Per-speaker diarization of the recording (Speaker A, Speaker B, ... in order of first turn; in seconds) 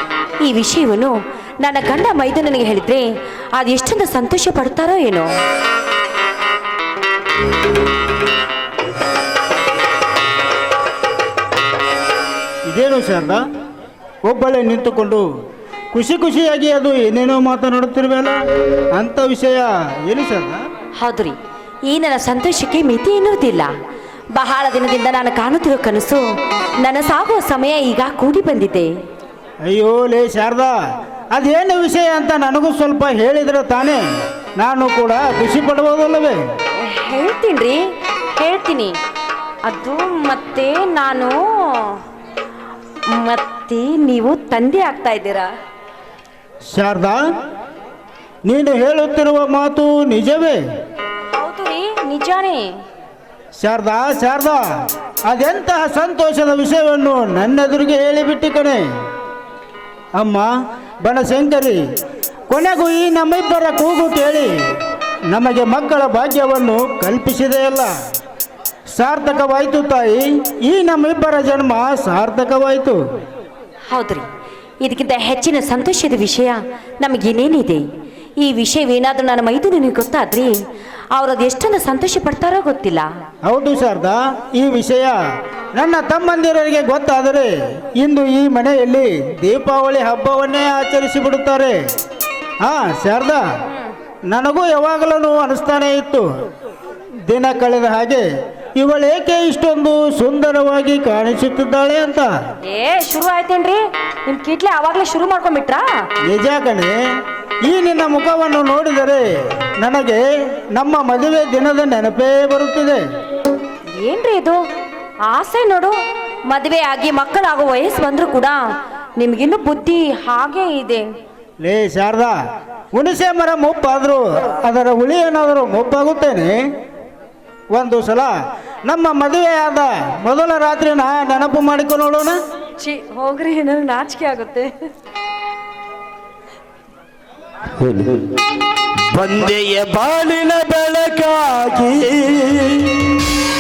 Speaker A: 0.4-5.3, 21.0-21.4, 21.9-23.7, 24.4-26.2, 26.8-28.9, 36.8-37.8, 38.3-39.0, 39.6-42.0, 43.1-45.5, 51.4-52.6, 73.9-74.3, 74.8-77.8, 78.4-80.5, 81.2-83.1, 102.7-105.9, 114.0-114.6, 115.3-116.0, 116.5-118.6, 119.2-121.1, 132.8-134.7
Speaker B: 12.7-13.4, 14.3-15.3, 15.9-18.4, 19.0-20.6, 29.7-30.8, 31.4-34.0, 34.6-36.4, 46.7-47.2, 48.5-50.6, 53.6-54.6, 55.3-58.8, 60.2-60.5, 61.0-61.8, 62.5-64.5, 65.3-67.9, 69.0-73.0, 83.5-85.2, 85.8-91.8, 92.6-93.4, 94.3-96.3, 97.3-102.3, 106.3-106.9, 107.7-113.0, 121.6-122.4, 123.0-126.6, 127.8-128.3, 128.9-132.4
Speaker C: 137.8-138.4, 139.1-143.3